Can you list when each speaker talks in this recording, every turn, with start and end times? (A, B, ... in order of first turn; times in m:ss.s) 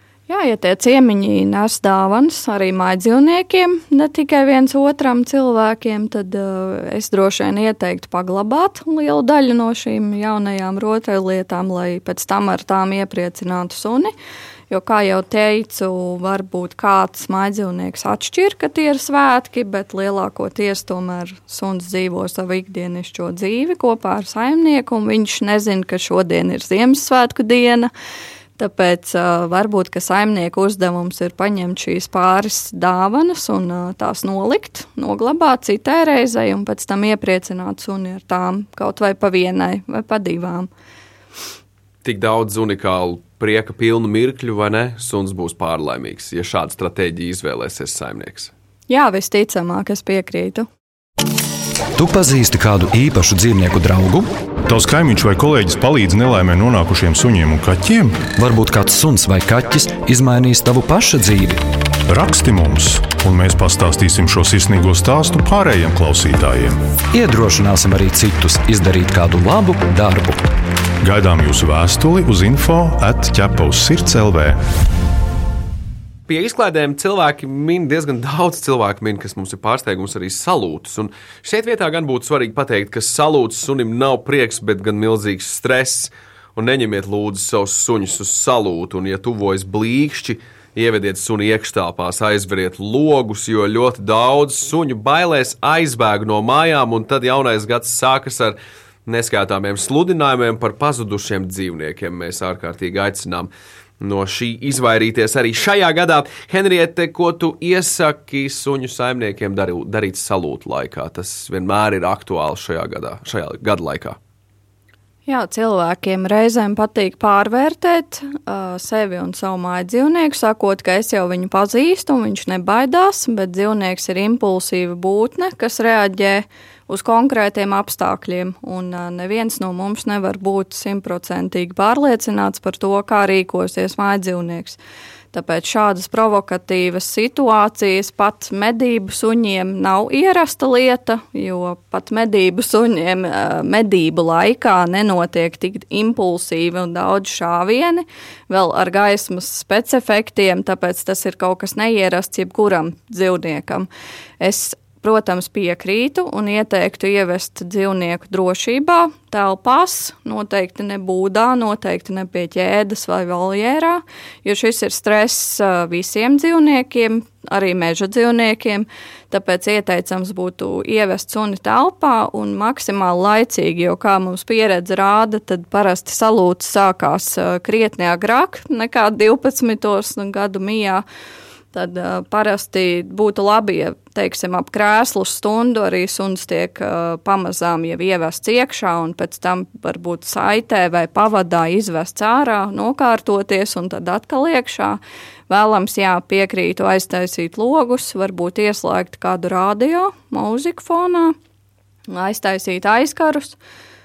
0:00.3-0:14.1 A
0:14.7-0:27.9 A
0:28.6-0:40.7 A
0:42.0-0:48.5 B
0:48.9-0:50.7 A
0:52.0-0:54.3 C
0:54.7-0:58.3 D
0:58.4-1:01.6 C
1:02.1-1:06.8 D
1:07.1-1:10.4 C
1:11.0-1:14.6 D
1:16.3-1:54.2 B
1:55.3-2:14.8 A
2:15.3-2:33.9 A
2:34.4-3:01.0 A
3:01.7-3:21.4 A
3:22.1-3:23.6 A